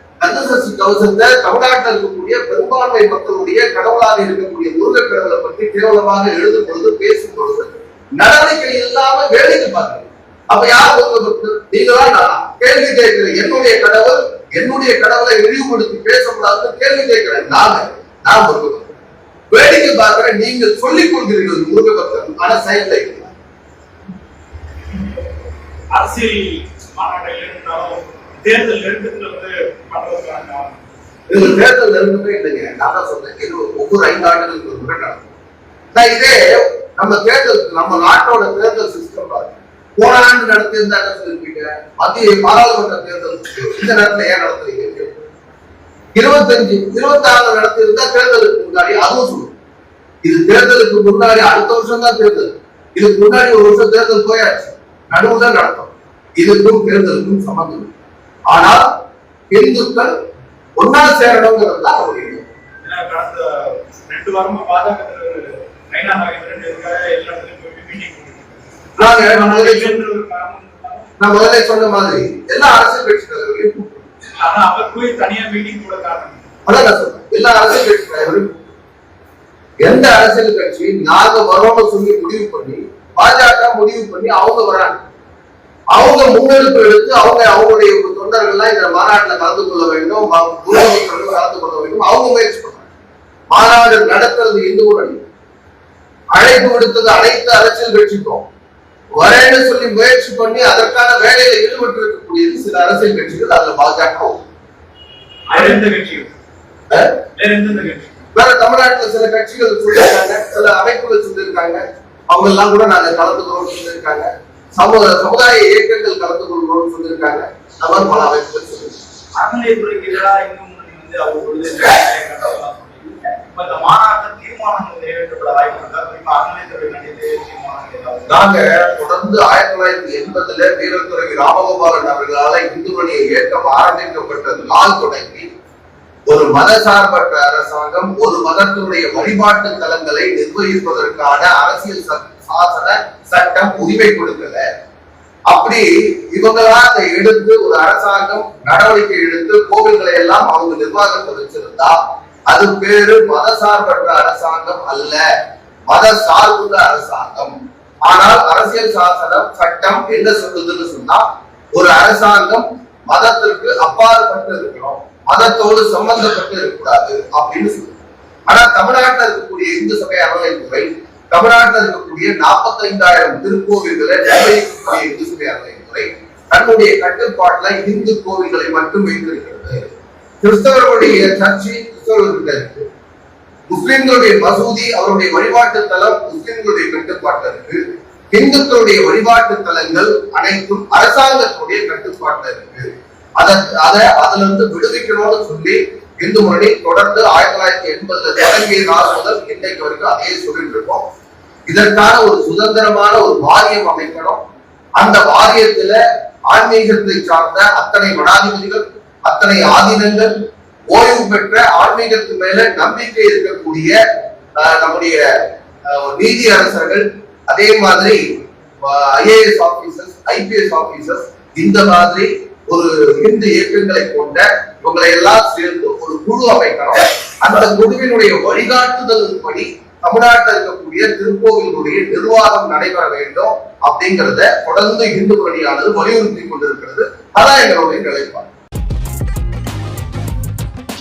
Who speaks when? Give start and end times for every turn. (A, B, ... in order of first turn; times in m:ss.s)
0:00.2-0:18.9 A
0:19.5-0:23.3 A
0:25.9-0:30.8 B
0:31.3-0:35.3 A
0:35.9-0:36.4 A
0:37.0-0:45.1 A
0:46.2-0:49.5 A
0:50.2-0:57.9 A
0:58.5-0:58.9 A
0:59.5-1:00.1 A
1:00.8-1:02.5 A
1:02.8-1:11.1 B
1:09.0-1:10.0 A
1:11.2-1:14.1 A
1:14.4-1:16.5 B
1:16.7-1:18.6 A
1:19.8-1:25.0 A
1:25.9-1:32.9 A
1:33.5-1:35.2 A
1:36.3-1:38.4 A
1:39.2-1:44.4 A
1:45.5-1:46.3 B
1:46.9-1:47.2 A
1:47.4-1:48.2 B
1:48.3-1:59.0 A
1:59.4-2:08.5 C
2:08.3-2:15.5 A
2:16.3-2:24.7 A
2:25.5-2:32.0 A
2:32.5-2:35.3 A
2:35.9-2:48.0 A
2:48.5-2:59.9 A
3:00.4-3:02.9 A
3:03.7-3:07.8 A
3:08.3-3:21.0 A
3:21.7-3:24.4 A
3:25.0-3:30.4 A
3:30.9-3:34.0 A
3:34.6-3:35.2 A
3:35.9-3:38.2 A
3:38.8-3:58.5 A